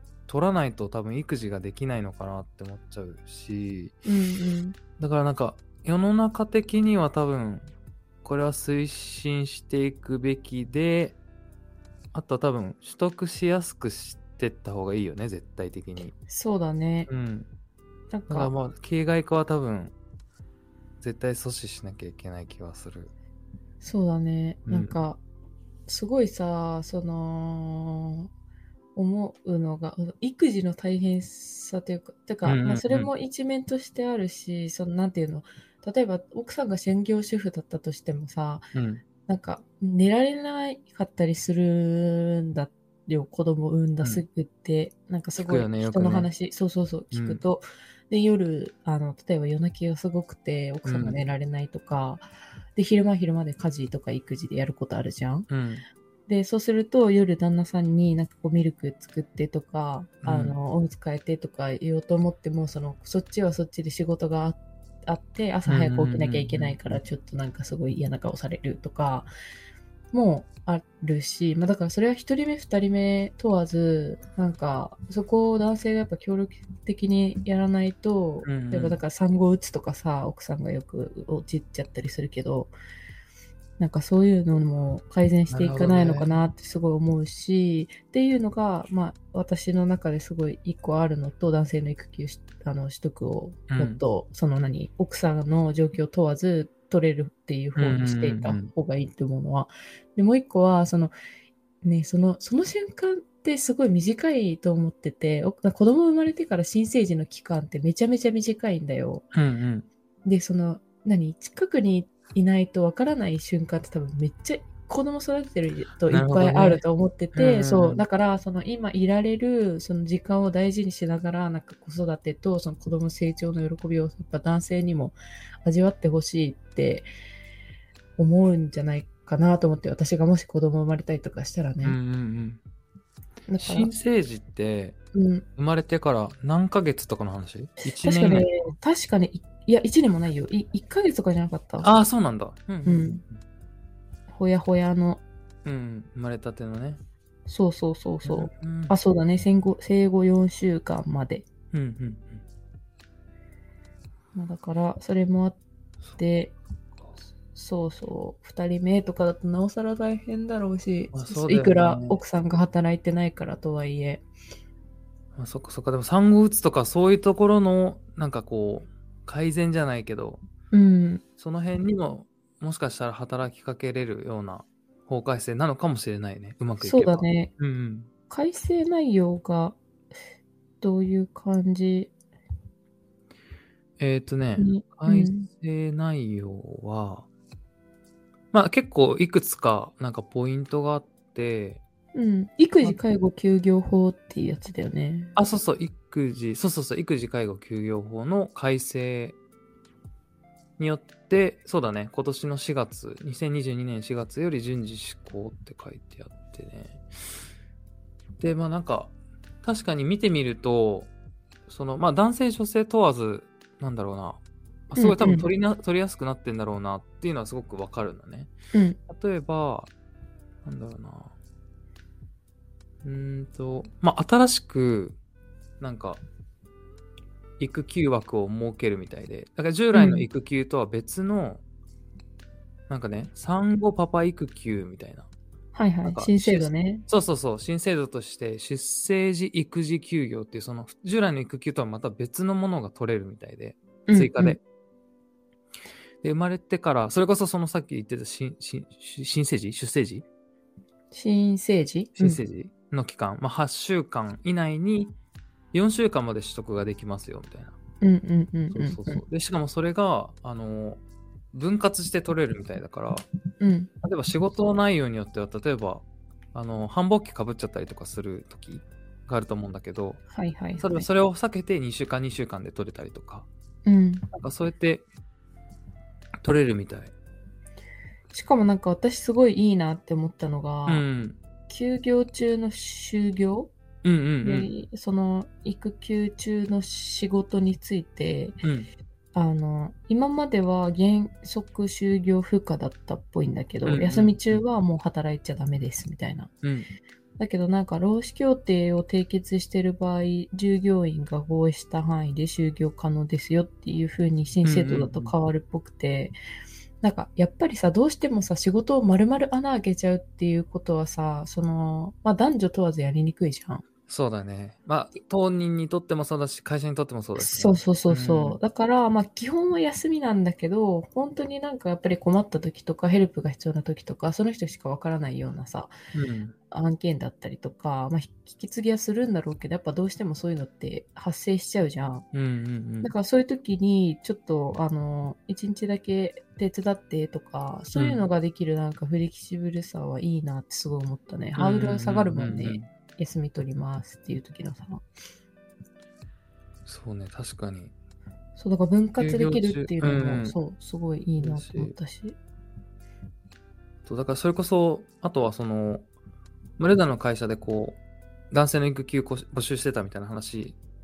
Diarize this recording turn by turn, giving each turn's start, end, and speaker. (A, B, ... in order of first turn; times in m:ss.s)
0:00.3-0:04.0 A
0:04.1-0:04.8 B
0:05.0-0:07.7 A
0:08.2-0:11.2 A
0:12.1-0:16.2 A
0:16.3-0:17.1 B
0:17.1-0:17.5 A
0:18.1-0:18.5 B
0:18.3-0:20.0 A
0:21.0-0:23.1 A
0:23.8-0:25.2 B
0:24.7-0:24.9 A
0:25.9-0:28.3 B
0:29.0-0:38.7 B
0:32.4-0:33.1 A
0:38.7-0:39.0 A
0:39.2-0:55.5 B
0:45.4-0:46.3 A
0:47.1-0:47.4 A
0:50.8-0:51.2 A
0:55.5-0:55.9 A
0:56.3-1:09.3 B
1:00.2-1:00.6 A
1:05.7-1:06.9 A
1:10.1-1:22.7 B
1:18.4-1:19.0 A
1:23.8-1:41.1 B
1:25.5-1:26.3 A
1:33.7-1:34.0 A
1:37.8-1:38.7 A
1:41.8-1:49.2 B
1:49.3-1:49.9 A
1:50.2-2:07.1 B
1:56.1-1:56.8 A
1:57.4-1:58.0 A
2:08.2-2:12.0 B
2:11.8-2:12.6 A
2:13.5-2:13.9 B
2:13.6-2:15.0 A
2:15.1-2:15.4 B
2:15.6-2:18.5 A
2:17.9-2:21.9 B
2:21.8-2:23.4 A
2:22.8-2:23.2 B
2:24.3-2:25.2 B
2:25.6-2:27.0 A
2:27.5-2:31.5 B
2:28.2-2:29.0 A
2:31.7-2:32.4 A
2:34.3-2:35.6 B
2:36.2-2:36.6 B
2:37.5-2:44.3 B
2:41.1-2:42.2 A
2:45.4-2:50.4 A
2:50.7-2:51.2 B
2:51.4-2:58.1 A
2:56.8-2:57.5 B
2:58.3-2:59.8 B
3:00.8-3:02.1 B
3:04.0-3:07.3 A
3:04.6-3:05.5 B
3:08.5-3:11.8 A
3:12.1-3:15.3 B
3:15.4-3:19.4 A
3:20.8-3:27.0 A
3:28.4-3:31.1 A
3:31.7-3:38.5 A
3:35.0-3:35.5 B
3:38.7-3:39.0 B
3:39.1-3:39.9 A
3:40.6-3:41.4 A
3:43.0-3:45.2 A
3:45.8-3:46.2 A
3:47.6-3:51.6 A
3:49.9-3:50.3 B
3:52.9-3:55.3 A
3:55.7-3:57.0 B
3:56.0-4:04.6 A
4:04.1-4:04.6 B
4:06.2-4:10.2 A
4:11.1-4:12.4 B
4:12.2-4:15.2 A
4:15.7-4:17.8 A
4:18.0-4:19.2 B
4:18.7-4:21.0 A
4:21.5-4:23.3 A
4:23.6-4:23.9 B
4:24.0-4:30.2 A
4:30.3-4:31.1 B
4:30.8-4:33.5 A
4:33.9-4:34.2 B
4:34.3-4:35.1 A
4:36.4-4:37.1 A
4:38.3-4:41.1 B
4:40.9-4:41.4 A
4:41.7-4:43.7 B
4:44.0-4:44.7 A
4:44.4-4:48.6 B
4:48.6-4:48.9 A
4:49.3-4:56.5 B
4:53.9-4:54.6 A
4:56.6-4:56.9 A
4:57.4-5:06.4 B
5:04.6-5:05.3 A
5:07.0-5:13.8 B
5:14.1-5:18.6 A
5:17.4-5:25.9 B
5:26.1-5:26.6 A
5:26.7-5:32.2 B
5:32.3-5:33.1 A
5:33.0-5:45.0 B
5:37.9-5:38.2 A
5:41.6-5:42.9 A
5:46.9-5:47.9 A
5:48.6-5:52.4 B
5:49.2-5:50.6 A
5:51.4-5:51.9 A
5:54.0-5:56.1 A
5:56.8-5:58.0 A
5:58.5-6:00.8 A